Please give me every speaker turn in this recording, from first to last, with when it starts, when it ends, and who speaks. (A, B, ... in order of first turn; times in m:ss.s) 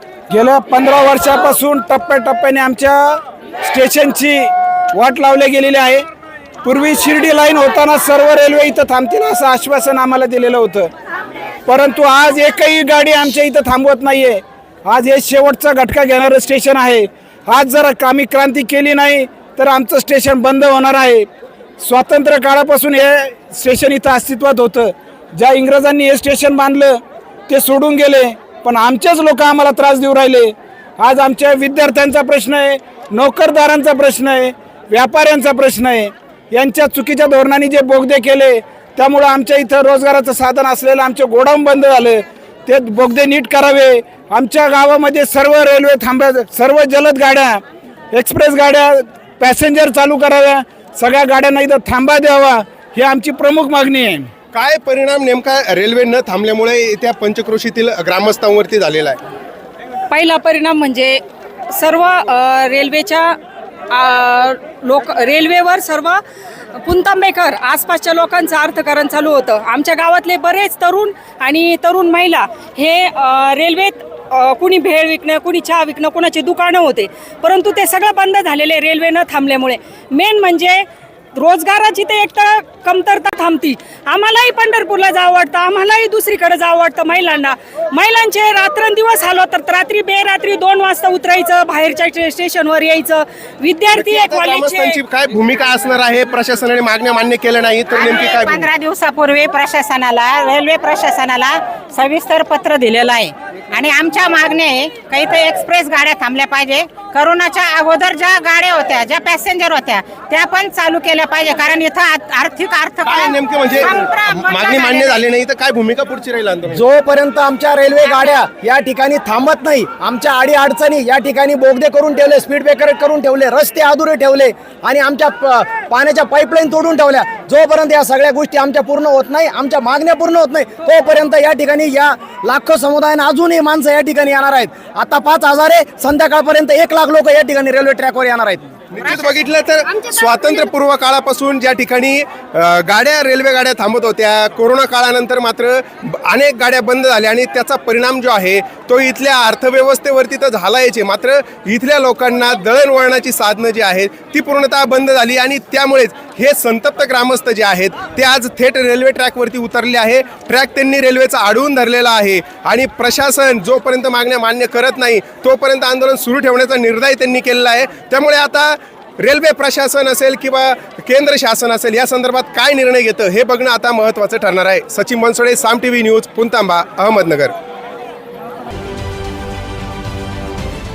0:00.3-0:06.0 A
0:06.6-0:10.9 A
0:11.7-0:21.3 A
0:21.8-0:47.6 A
0:48.1-0:54.3 A
0:54.5-0:59.2 B
1:00.1-1:01.2 C
1:01.7-1:03.4 C
1:03.9-1:06.2 C
1:06.8-1:20.8 C
1:21.4-1:35.0 C
1:33.9-1:38.7 B
1:37.9-1:55.2 D
1:53.0-1:56.8 B
1:56.7-2:18.7 E
2:18.9-2:57.5 B
2:19.1-2:19.4 D